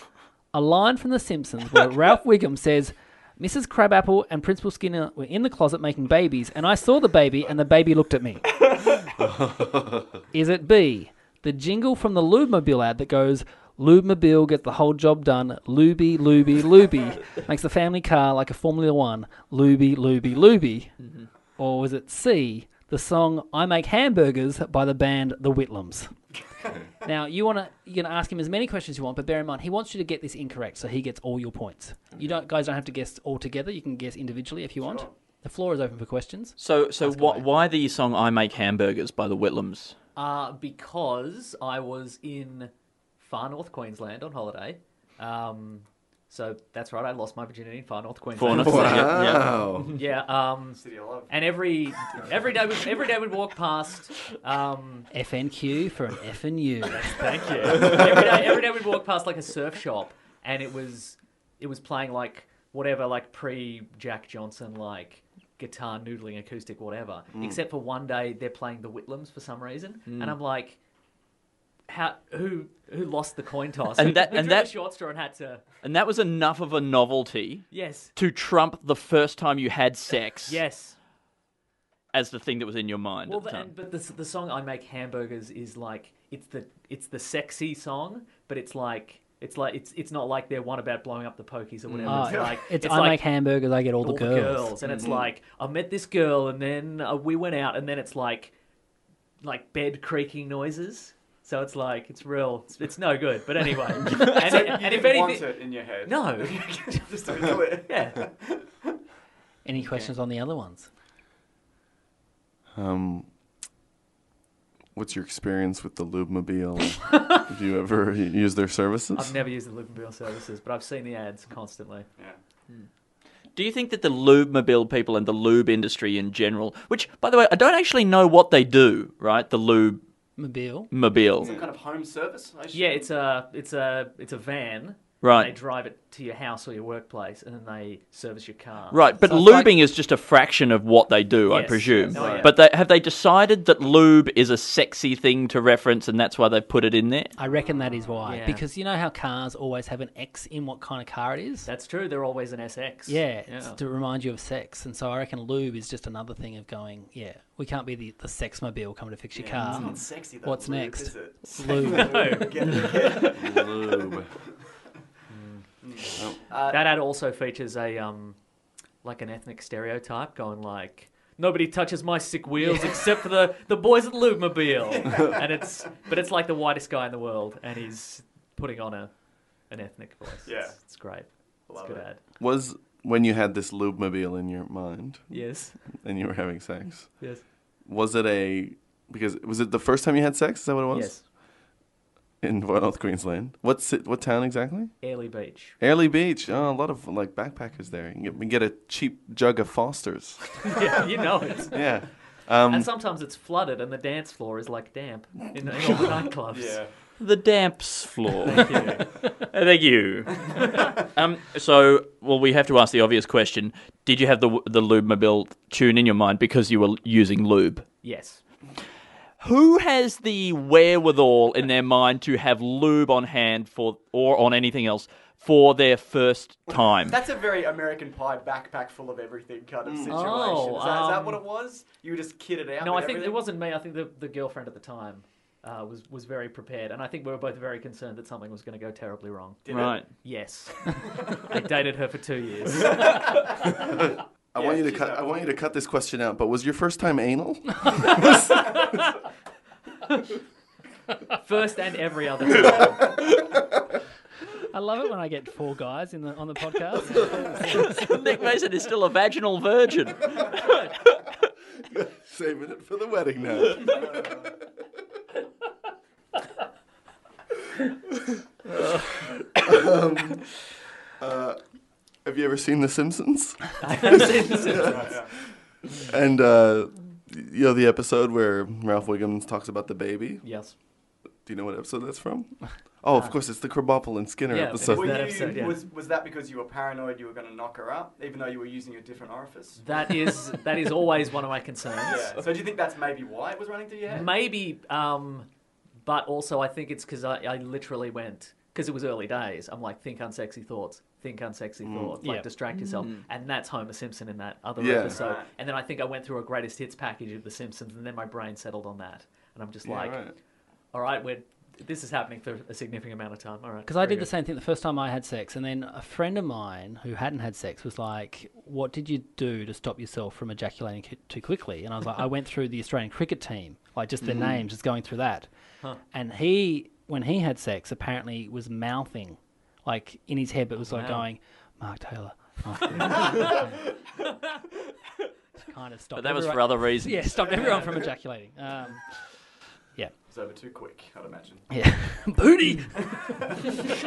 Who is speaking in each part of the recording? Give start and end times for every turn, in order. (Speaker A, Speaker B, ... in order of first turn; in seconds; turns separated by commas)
Speaker A: 0.5-8.4, Speaker B: 9.3-10.0, Speaker A: 10.3-20.9, Speaker C: 21.0-21.3, Speaker A: 21.6-26.1, Speaker A: 27.0-37.5, Speaker D: 34.8-35.1, Speaker C: 36.6-39.9, Speaker E: 40.1-49.2, Speaker C: 48.3-49.5, Speaker B: 48.5-49.9, Speaker E: 49.9-55.1, Speaker D: 50.7-51.3, Speaker A: 55.1-57.5, Speaker E: 56.9-70.8, Speaker C: 70.1-70.3, Speaker E: 71.9-75.7, Speaker C: 74.0-74.7, Speaker C: 75.8-80.6, Speaker E: 77.7-78.1, Speaker E: 80.5-81.0, Speaker C: 82.1-83.7, Speaker E: 83.2-93.3, Speaker A: 92.0-94.8, Speaker D: 92.2-92.6, Speaker E: 94.0-98.5, Speaker E: 99.4-108.3, Speaker D: 104.1-108.6, Speaker A: 109.6-110.9, Speaker B: 112.7-113.3, Speaker B: 114.9-119.3, Speaker E: 117.1-117.4, Speaker E: 119.1-122.1, Speaker C: 123.5-130.0, Speaker A: 130.4-130.9, Speaker C: 130.9-131.6, Speaker D: 131.4-133.1, Speaker E: 132.7-139.0, Speaker C: 135.2-135.6, Speaker C: 138.9-147.3, Speaker A: 139.2-139.8, Speaker E: 141.5-142.5, Speaker D: 142.0-142.5, Speaker B: 142.2-142.4, Speaker A: 147.4-151.7, Speaker D: 147.4-148.3, Speaker E: 148.2-148.6, Speaker E: 151.6-153.8, Speaker A: 153.1-162.6, Speaker D: 159.3-163.9, Speaker E: 159.6-159.9, Speaker E: 161.7-163.4, Speaker B: 163.3-164.3, Speaker E: 165.3-165.7, Speaker D: 165.8-166.8, Speaker E: 166.7-168.4, Speaker E: 169.0-179.1, Speaker A: 172.6-172.9, Speaker D: 175.0-175.3, Speaker E: 179.7-182.2, Speaker D: 180.4-180.8, Speaker D: 181.7-182.1, Speaker B: 182.4-185.4, Speaker E: 185.3-185.8, Speaker B: 185.9-187.2, Speaker B: 187.8-191.2, Speaker E: 190.9-191.2, Speaker B: 192.4-194.9, Speaker E: 195.0-195.8, Speaker B: 195.8-200.8, Speaker E: 200.7-202.0, Speaker B: 201.7-202.9, Speaker E: 202.7-206.8, Speaker D: 206.5-206.9, Speaker C: 207.2-208.9, Speaker E: 208.4-209.1, Speaker D: 208.6-209.0, Speaker C: 209.5-217.9, Speaker E: 218.0-218.4, Speaker C: 219.4-227.2, Speaker D: 227.1-233.4, Speaker B: 229.8-230.2, Speaker E: 230.1-231.4, Speaker E: 232.8-243.3, Speaker D: 239.7-240.0, Speaker C: 239.7-240.1, Speaker B: 244.5-248.4, Speaker D: 244.6-245.5, Speaker E: 251.4-253.3, Speaker A: 254.7-258.2, Speaker C: 257.7-260.9, Speaker B: 261.9-264.0, Speaker D: 263.9-264.5, Speaker B: 269.6-270.5, Speaker B: 271.2-271.6, Speaker B: 272.2-275.1, Speaker E: 273.8-275.2, Speaker D: 274.7-275.3, Speaker B: 276.0-280.4, Speaker E: 280.4-280.7, Speaker B: 281.4-285.4, Speaker E: 284.5-285.8, Speaker D: 284.9-290.1, Speaker E: 289.8-292.4, Speaker D: 292.0-294.4, Speaker E: 294.1-295.5, Speaker E: 296.0-310.3, Speaker B: 301.8-302.2, Speaker A: 302.2-302.5, Speaker C: 302.8-303.2, Speaker B: 304.8-305.2, Speaker D: 305.1-305.5, Speaker B: 309.8-310.3, Speaker E: 310.9-314.3, Speaker A: 313.9-325.5, Speaker B: 324.2-324.6, Speaker A: 326.1-333.8, Speaker E: 330.8-331.3, Speaker E: 333.0-333.5, Speaker A: 335.6-339.3, Speaker C: 336.1-337.7, Speaker D: 340.3-341.6, Speaker A: 341.7-343.2